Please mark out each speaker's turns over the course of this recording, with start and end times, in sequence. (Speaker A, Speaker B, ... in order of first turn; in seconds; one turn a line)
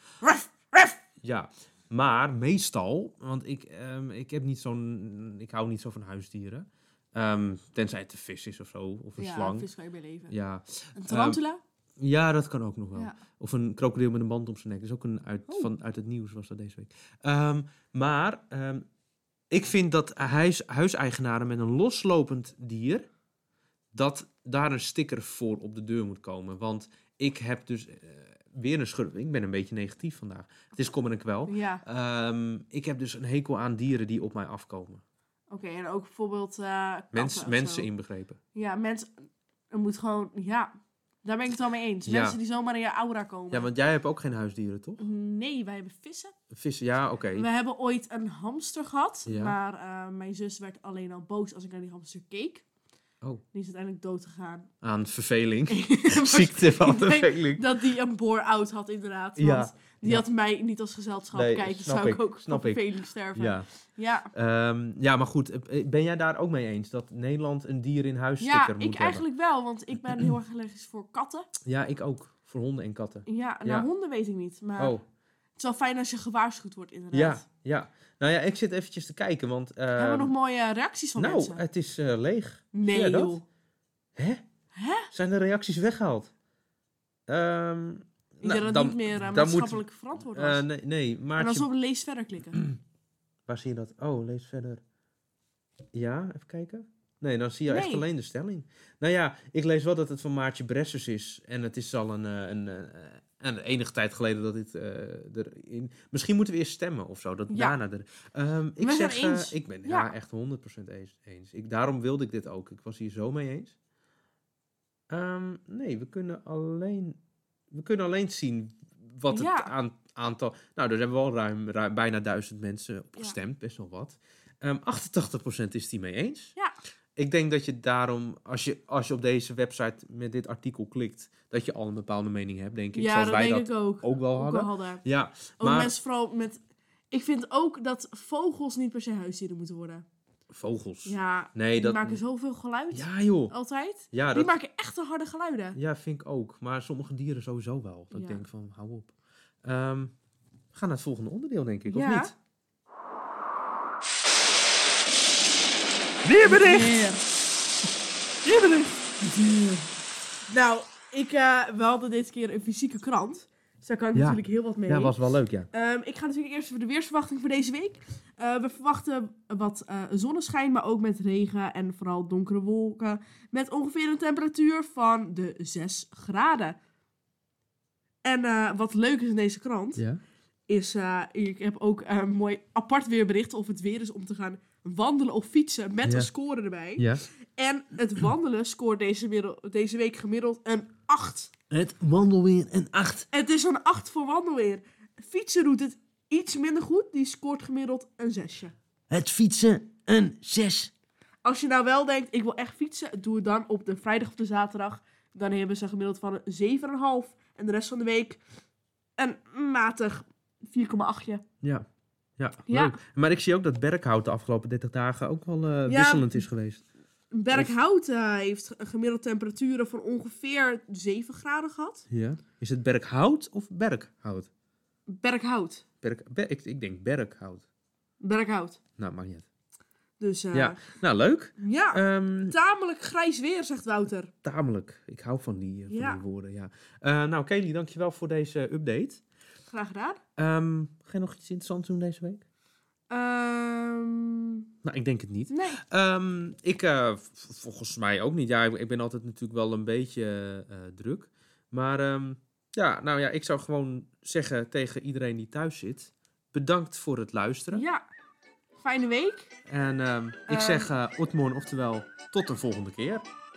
Speaker A: 0.2-1.0
Speaker B: 1.2-9.7
Speaker A: 9.2-10.4
Speaker B: 10.3-11.4
Speaker A: 10.9-11.6
Speaker B: 12.0-18.9
Speaker B: 19.5-23.1
Speaker B: 23.9-35.0
Speaker A: 31.5-31.8
Speaker A: 35.5-37.9
Speaker B: 37.1-38.4
Speaker A: 38.5-39.1
Speaker A: 39.7-43.7
Speaker B: 42.0-42.4
Speaker B: 43.5-45.0
Speaker A: 45.0-46.4
Speaker B: 46.5-47.5
Speaker A: 47.4-52.6
Speaker B: 49.3-49.6
Speaker A: 53.5-54.7
Speaker B: 54.8-57.8
Speaker A: 55.7-64.3
Speaker B: 59.4-60.2
Speaker B: 61.3-62.8
Speaker B: 63.4-63.7
Speaker B: 64.3-69.2
Speaker A: 68.4-71.5
Speaker B: 71.6-73.9
Speaker A: 73.3-75.0
Speaker B: 74.8-75.0
Speaker A: 75.6-77.4
Speaker B: 77.1-80.3
Speaker A: 80.0-81.6
Speaker B: 81.2-83.4
Speaker A: 82.7-83.5
Speaker B: 84.2-84.5
Speaker A: 84.7-85.1
Speaker B: 85.1-86.3
Speaker B: 87.3-91.7
Speaker A: 88.4-90.7
Speaker A: 91.4-92.6
Speaker B: 93.5-94.8
Speaker B: 95.9-113.8
Speaker A: 97.7-98.0
Speaker A: 107.5-107.8
Speaker A: 108.8-110.1
Speaker B: 115.1-117.2
Speaker B: 117.7-126.5
Speaker A: 119.3-119.7
Speaker B: 127.2-135.9
Speaker A: 132.9-135.0
Speaker A: 135.6-136.6
Speaker A: 137.1-140.1
Speaker B: 140.5-142.2
Speaker A: 141.1-145.8
Speaker B: 142.9-143.6
Speaker B: 144.1-144.6
Speaker B: 145.8-149.1
Speaker A: 148.1-148.4
Speaker B: 149.6-150.2
Speaker B: 150.7-152.3
Speaker A: 151.9-152.3
Speaker B: 156.2-157.0
Speaker A: 156.4-157.2
Speaker A: 158.4-159.9
Speaker A: 160.5-165.2
Speaker B: 164.1-165.7
Speaker A: 165.7-176.8
Speaker A: 178.2-180.0
Speaker A: 180.7-191.5
Speaker B: 186.1-186.3
Speaker B: 187.0-187.2
Speaker B: 191.7-193.3
Speaker A: 193.3-198.7
Speaker B: 199.1-200.9
Speaker A: 201.4-208.4
Speaker A: 209.2-211.4
Speaker B: 212.4-216.8
Speaker A: 212.7-213.0
Speaker A: 215.9-216.4
Speaker A: 217.3-222.1
Speaker B: 222.1-224.5
Speaker A: 225.1-225.8
Speaker B: 226.0-227.6
Speaker A: 228.2-228.8
Speaker B: 229.0-229.5
Speaker A: 230.2-230.8
Speaker B: 230.5-232.6
Speaker A: 231.6-234.3
Speaker B: 234.4-239.2
Speaker A: 235.9-236.2
Speaker A: 239.7-240.2
Speaker B: 240.4-242.4
Speaker A: 243.1-244.7
Speaker B: 244.8-257.9
Speaker A: 245.5-245.8
Speaker A: 257.7-258.0
Speaker A: 258.8-259.5
Speaker B: 259.7-263.3
Speaker A: 260.5-260.9